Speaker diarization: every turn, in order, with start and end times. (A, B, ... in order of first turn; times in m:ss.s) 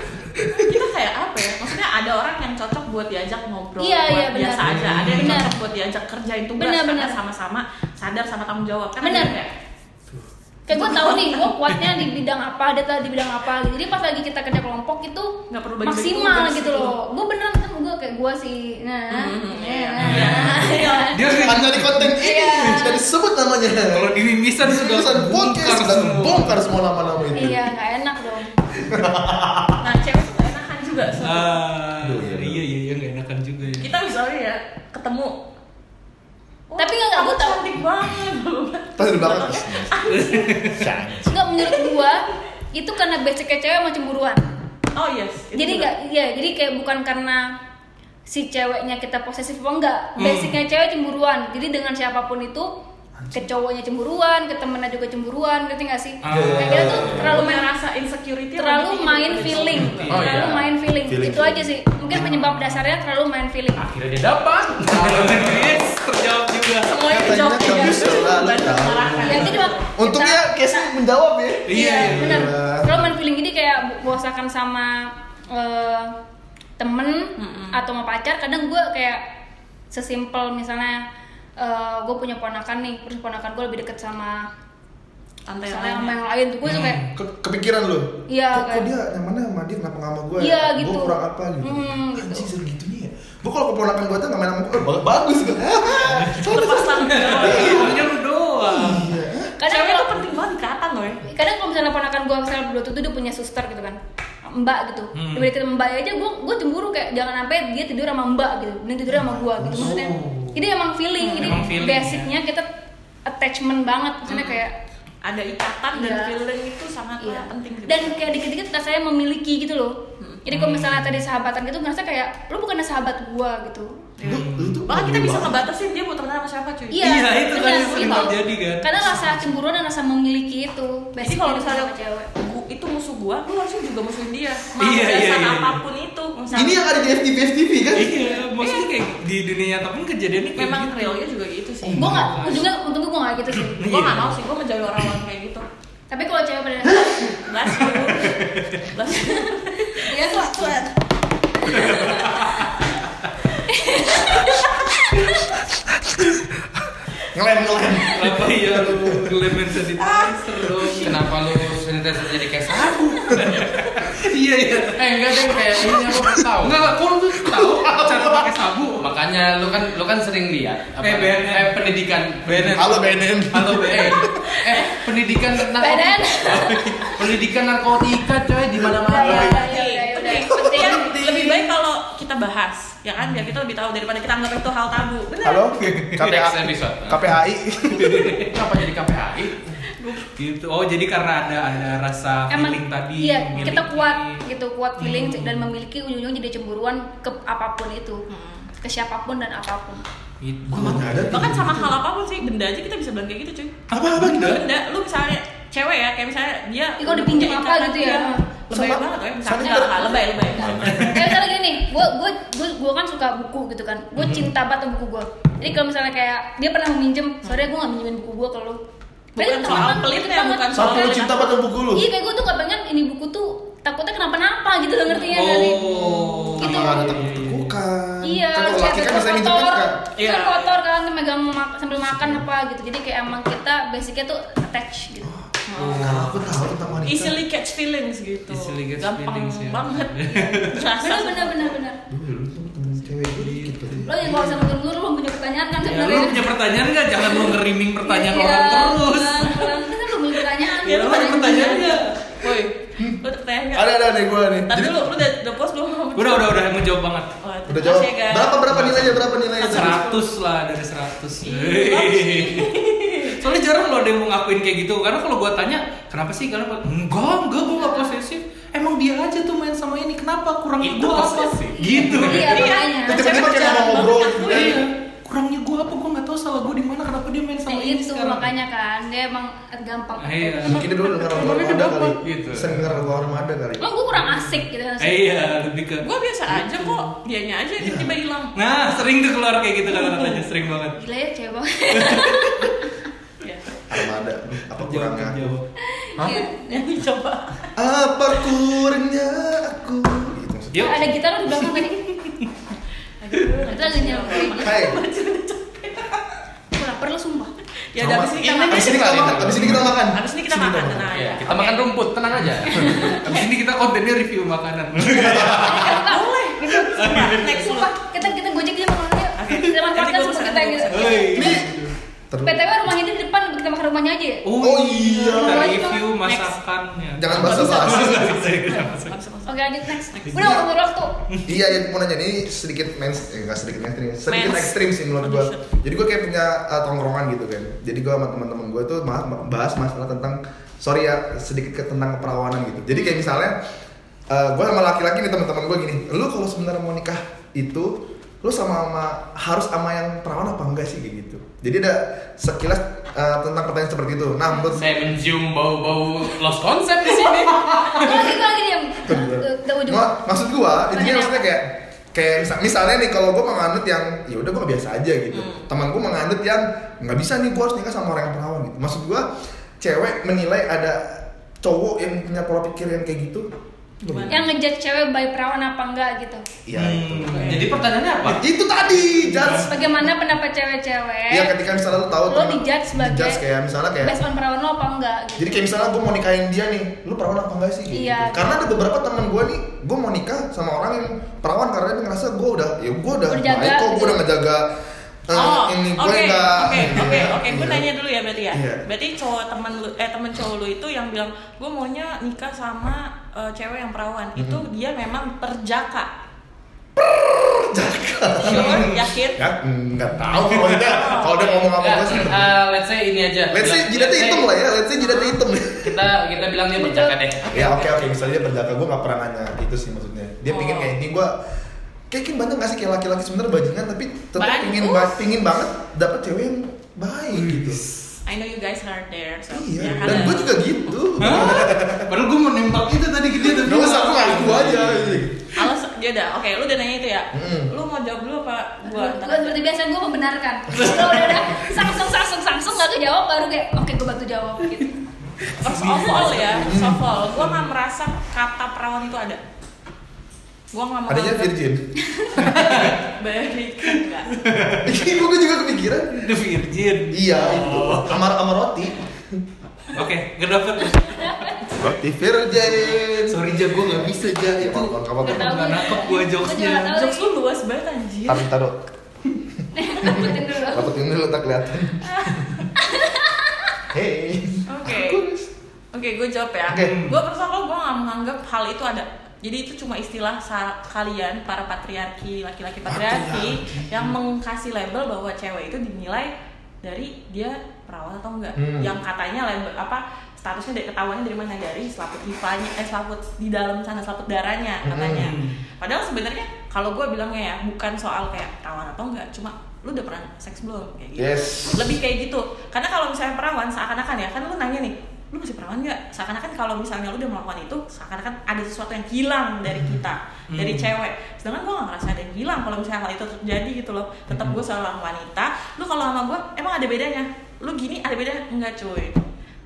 0:00.2-0:00.4 A
0:00.5-0:09.5 B
0:03.8-0:05.5 C
0:04.6-0:05.2 A
0:04.9-0:05.4 D
0:06.6-0:07.2 C
0:09.0-0:09.3 C
0:10.7-0:21.5 C
0:10.7-0:11.5 B
0:15.5-0:17.0 B
0:19.1-0:21.2 B
0:20.0-0:22.8 D
0:20.1-0:20.7 A
0:21.3-0:27.7 A
0:22.1-0:23.0 C
0:23.8-0:26.6 D
0:27.3-0:28.5 C
0:28.8-0:29.8 A
0:29.8-0:31.6 B
0:31.2-0:33.9 D
0:32.0-0:32.6 A
0:33.8-0:35.3 B
0:36.7-0:40.6 B
0:36.8-0:37.6 C
0:39.0-0:40.0 A
0:40.1-0:40.9 D
0:40.7-0:41.6 A
0:41.3-0:44.4 C
0:41.7-0:42.0 B
0:44.9-0:45.9 B
0:45.5-0:47.5 C
0:48.2-0:52.7 C
0:50.2-0:50.6 D
0:53.3-0:57.7 C
0:56.2-0:57.1 D
0:56.3-0:57.5 A
0:57.0-1:00.5 B
0:58.6-1:03.8 C
0:59.8-1:00.4 D
1:00.1-1:00.6 E
1:00.1-1:00.4 A
1:01.0-1:02.3 A
1:02.1-1:02.8 D
1:03.8-1:05.8 E
1:04.9-1:06.9 D
1:06.8-1:09.9 B
1:07.1-1:13.1 A
1:09.2-1:10.9 C
1:11.7-1:12.5 D
1:11.7-1:16.1 C
1:16.8-1:19.2 C
1:17.4-1:17.8 B
1:19.9-1:21.0 C
1:21.6-1:24.5 C
1:25.4-1:26.2 B
1:25.7-1:27.0 C
1:26.6-1:27.1 D
1:27.1-1:38.1 A
1:28.3-1:28.9 C
1:30.4-1:32.5 C
1:36.1-1:39.1 D
1:36.3-1:38.0 B
1:38.6-1:39.5 A
1:39.6-1:40.2 C
1:39.6-1:41.2 B
1:41.3-1:52.7 C
1:45.1-1:45.5 D
1:49.1-1:50.1 A
1:49.8-1:50.6 D
1:51.2-1:51.8 B
1:51.4-1:52.3 D
1:53.2-1:54.7 C
1:54.2-1:54.6 B
1:55.2-1:58.2 B
1:55.9-1:56.3 C
1:57.2-2:04.0 C
2:00.5-2:01.2 D
2:04.2-2:08.3 B
2:04.3-2:04.8 D
2:04.3-2:05.6 A
2:06.9-2:12.3 C
2:07.0-2:09.5 D
2:11.2-2:16.8 B
2:14.8-2:15.8 D
2:16.5-2:18.2 A
2:17.9-2:21.2 D
2:18.2-2:18.9 B
2:20.6-2:22.3 B
2:21.8-2:22.5 A
2:22.0-2:23.9 C
2:22.0-2:22.7 D
2:23.6-2:24.4 D
2:23.8-2:25.6 B
2:26.1-2:27.4 C
2:26.9-2:27.3 A
2:27.4-2:30.9 B
2:27.9-2:28.9 D
2:29.1-2:30.9 C
2:31.6-2:32.6 C
2:31.7-2:32.2 B
2:31.7-2:33.2 D
2:33.6-2:35.5 C
2:35.9-2:39.4 A
2:38.1-2:41.2 D
2:40.0-2:41.1 B
2:41.0-2:43.7 E
2:42.8-2:46.0 D
2:44.9-2:46.9 E
2:46.6-2:49.1 D
2:47.4-2:48.5 A
2:49.0-2:59.6 E
2:51.0-2:51.8 D
2:52.4-2:54.3 D
2:52.7-2:54.3 A
2:54.7-2:55.0 B
2:55.8-2:57.2 C
2:59.0-3:01.2 C
2:59.2-3:05.7 B
3:00.5-3:01.6 A
3:05.4-3:08.3 A
3:05.8-3:06.2 D
3:06.2-3:07.2 E
3:08.0-3:08.5 D
3:08.1-3:09.8 E
3:09.9-3:10.3 B
3:10.4-3:14.4 D
3:12.5-3:18.2 C
3:15.0-3:15.7 D
3:18.3-3:18.7 B
3:18.8-3:20.0 C
3:20.4-3:21.6 D
3:20.7-3:21.9 A
3:21.3-3:31.2 B
3:23.9-3:24.6 D
3:27.0-3:28.4 C
3:28.7-3:31.1 A
3:29.6-3:30.2 C
3:30.8-3:31.4 D
3:31.0-3:38.8 C
3:34.2-3:34.4 A
3:39.4-3:41.6 B
3:39.4-3:41.2 C
3:39.7-3:40.0 D
3:40.7-3:42.1 A
3:41.9-3:47.1 C
3:45.1-3:45.4 B
3:45.3-3:47.8 D
3:46.6-3:50.0 A
3:48.2-3:55.3 C
3:50.1-3:50.8 B
3:52.0-3:52.4 A
3:55.2-3:57.4 A
3:55.7-3:56.3 B
3:55.7-3:57.0 D
3:57.0-4:01.8 B
3:58.5-4:00.9 D
4:01.0-4:02.0 C
4:02.1-4:04.7 A
4:03.4-4:04.3 D
4:04.0-4:06.5 C
4:05.8-4:09.7 D
4:07.2-4:12.0 C
4:09.4-4:09.8 B
4:10.8-4:12.2 D
4:10.8-4:13.9 B
4:13.7-4:15.2 A
4:14.7-4:16.6 B
4:16.1-4:17.3 D
4:17.4-4:18.6 B
4:17.7-4:20.0 A
4:18.6-4:22.8 D
4:19.6-4:20.3 B
4:21.4-4:23.4 B
4:23.4-4:32.8 D
4:30.8-4:32.3 E
4:31.8-4:33.6 C
4:32.1-4:34.8 B
4:33.0-4:34.8 A
4:34.4-4:38.5 D
4:37.7-4:40.9 C
4:40.2-4:40.8 D
4:40.6-4:43.9 A
4:41.3-4:42.8 E
4:42.8-4:43.1 D
4:43.8-4:45.5 C
4:44.1-4:46.1 D
4:46.0-4:48.5 B
4:46.6-4:47.1 D
4:47.8-4:48.1 A
4:48.5-4:51.0 D
4:49.9-4:50.3 B
4:51.0-4:52.9 C
4:51.9-4:52.4 D
4:53.4-4:53.6 B
4:53.9-4:55.6 A
4:54.7-4:55.7 D
4:55.9-4:56.8 C
4:56.2-4:56.5 A
4:56.6-4:57.7 B
4:57.8-5:01.2 A
5:00.7-5:01.1 D
5:00.8-5:02.2 C
5:01.6-5:02.5 D
5:03.2-5:07.0 B
5:03.6-5:04.8 C
5:04.6-5:05.0 A
5:06.7-5:07.5 C
5:07.9-5:11.9 B
5:08.0-5:11.1 A
5:08.4-5:09.8 E
5:11.1-5:13.2 E
5:12.7-5:13.5 B
5:13.0-5:16.0 D
5:15.1-5:15.8 A
5:15.5-5:21.6 C
5:15.6-5:18.0 B
5:16.9-5:17.4 D
5:19.4-5:21.6 B
5:20.9-5:22.0 D
5:21.3-5:21.7 A
5:22.3-5:22.6 A
5:22.4-5:24.4 C
5:24.4-5:29.2 D
5:24.6-5:25.8 A
5:25.4-5:26.0 C
5:25.8-5:26.6 B
5:27.2-5:28.3 A
5:27.3-5:30.6 B
5:29.4-5:31.1 C
5:30.3-5:30.6 A
5:31.3-5:31.6 D
5:31.4-5:43.6 A
5:34.3-5:35.7 B
5:42.9-5:43.2 B
5:44.3-5:54.9 A
5:54.8-5:58.3 E
5:57.2-6:00.2 C
5:59.0-6:09.2 A
6:00.9-6:01.5 C
6:05.3-6:05.7 B
6:09.8-6:13.5 A
6:14.0-6:14.5 A
6:14.0-6:14.5 B
6:14.3-6:16.4 C
6:16.7-6:17.8 A
6:16.7-6:18.4 D
6:17.3-6:18.4 E
6:18.3-6:19.8 A
6:19.3-6:19.7 D
6:19.6-6:21.5 C
6:21.3-6:24.2 A
6:22.3-6:23.4 C
6:24.0-6:25.7 C
6:25.4-6:34.7 A
6:27.9-6:28.6 C
6:33.3-6:34.2 C
6:35.3-6:37.8 A
6:35.3-6:46.1 B
6:38.5-6:38.8 A
6:44.4-6:44.6 A
6:47.0-6:52.5 A
6:48.4-6:49.4 B
6:48.6-6:48.9 D
6:50.3-6:50.9 D
6:50.7-6:51.6 B
6:51.7-6:54.5 E
6:53.5-6:56.0 A
6:55.0-6:55.3 B
6:55.7-6:57.7 E
6:56.7-6:57.2 C
6:57.5-7:01.3 A
6:57.5-6:58.2 B
7:00.4-7:00.9 B
7:02.1-7:07.8 A
7:04.4-7:05.2 B
7:07.3-7:08.2 D
7:08.2-7:10.6 B
7:09.5-7:12.1 A
7:09.9-7:10.4 D
7:11.2-7:15.3 D
7:13.6-7:15.4 A
7:15.5-7:19.6 B
7:17.3-7:17.7 A
7:18.8-7:25.0 C
7:20.8-7:21.4 D
7:25.4-7:27.7 D
7:25.5-7:29.4 B
7:26.6-7:27.0 A
7:30.7-7:31.5 B
7:31.1-7:31.9 A
7:32.0-7:32.4 C
7:32.4-7:33.0 D
7:32.7-7:34.3 B
7:34.3-7:35.0 D
7:34.8-7:36.3 A
7:36.1-7:38.2 D
7:37.1-7:39.4 A
7:39.9-7:41.7 D
7:41.2-7:41.6 C
7:41.8-7:45.8 A
7:42.9-7:47.0 D
7:45.2-7:47.3 C
7:46.9-7:48.4 B
7:48.3-7:48.9 A
7:49.7-7:50.9 C
7:50.0-7:52.6 A
7:52.0-7:52.7 B
7:52.8-7:53.7 C
7:53.9-7:55.5 A
7:54.7-7:55.2 B
7:55.9-8:06.3 B
7:56.7-7:56.9 A
7:56.8-7:57.2 D
8:02.8-8:04.1 A
8:06.8-8:39.3 B
8:08.6-8:08.9 A
8:14.8-8:15.3 A
8:15.1-8:15.6 D
8:21.2-8:22.0 A
8:29.7-8:30.0 A
8:30.5-8:30.9 D
8:34.3-8:34.6 A